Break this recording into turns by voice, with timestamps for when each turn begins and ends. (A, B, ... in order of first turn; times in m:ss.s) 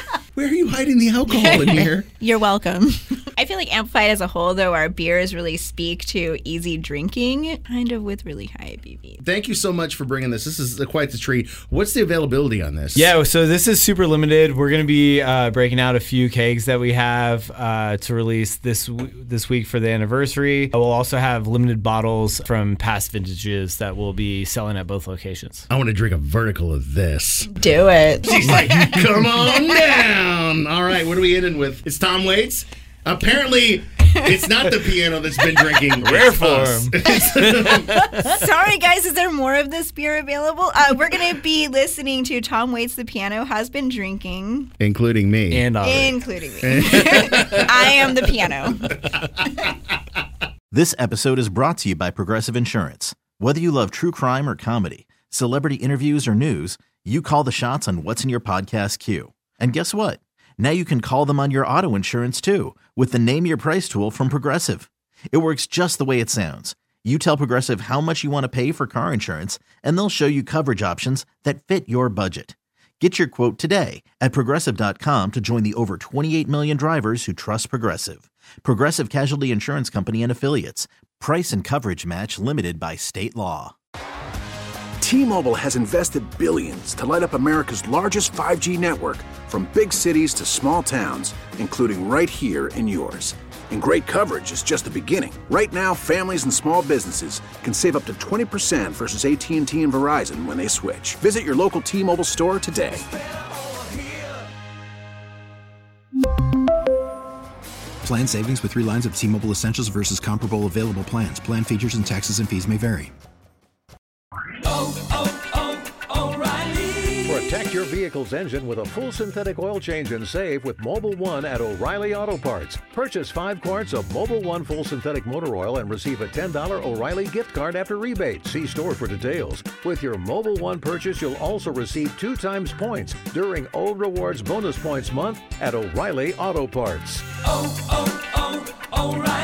0:00.3-0:02.1 A
0:01.3-0:09.2 B
0:09.2-0:13.1 A
0:13.0-0:25.7 C
0:25.7-0:27.6 A
0:27.6-0:28.4 B
0:28.2-0:37.9 A
0:36.0-0:38.3 C
0:38.2-0:44.7 B
0:44.8-0:45.6 A
0:45.5-0:46.2 C
0:45.8-0:49.1 B
0:46.6-0:47.7 A
0:50.7-1:23.8 D
1:25.0-1:43.1 E
1:48.0-1:53.0 F
1:56.3-2:17.3 G